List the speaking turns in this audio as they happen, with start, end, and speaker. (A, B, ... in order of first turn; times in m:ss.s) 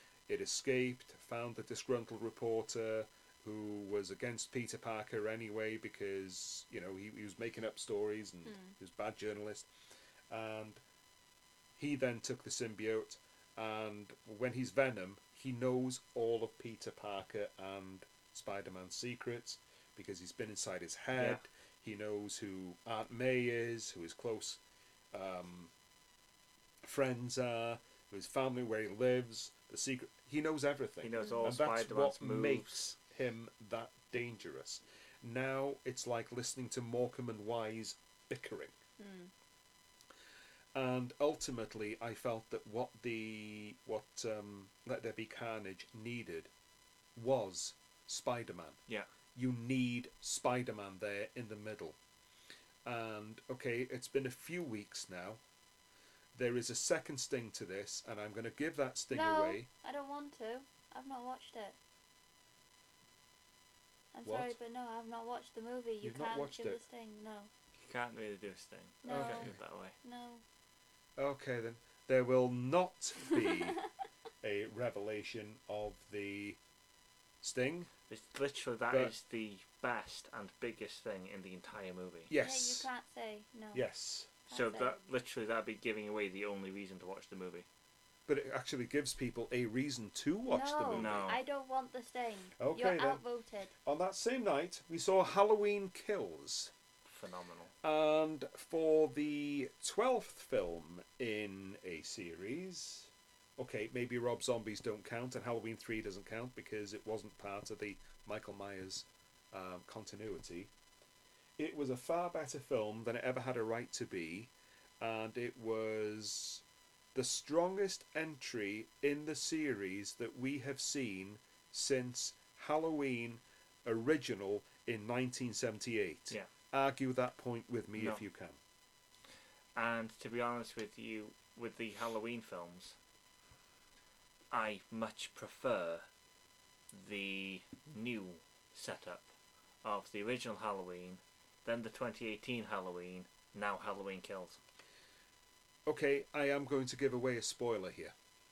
0:00.3-0:09.7 A
0:08.5-0:08.7 B
0:10.3-0:10.8 A
0:11.8-0:24.6 A
0:21.2-0:21.4 C
0:25.1-0:25.7 A
0:26.8-0:38.8 A
0:31.0-0:32.8 C
0:31.2-0:31.5 B
0:39.0-0:39.3 B
0:40.7-0:46.5 A
0:47.2-0:48.8 A
0:49.3-0:52.0 A
0:52.8-0:55.4 A
0:56.4-0:59.7 A
0:59.1-1:01.8 B
1:04.1-1:07.5 B
1:04.2-1:04.6 A
1:06.0-1:06.8 A
1:07.8-1:10.0 C
1:09.0-1:10.4 B
1:09.1-1:09.6 A
1:11.2-1:13.8 A
1:14.4-1:16.6 A
1:17.4-1:17.9 A
1:18.1-1:22.3 C
1:22.3-1:22.9 A
1:22.4-1:23.9 B
1:23.7-1:24.3 A
1:24.5-1:25.0 B
1:24.5-1:27.7 C
1:28.3-1:31.4 A
1:30.5-1:33.7 B
1:30.9-1:31.4 C
1:32.6-1:33.2 A
1:33.8-1:36.7 A
1:37.1-1:37.7 C
1:37.8-1:50.7 A
1:51.6-2:08.6 A
2:08.0-2:08.2 C
2:09.8-2:13.0 C
2:14.5-2:16.1 C
2:16.9-2:19.3 C
2:19.8-2:24.6 C
2:25.9-2:28.1 A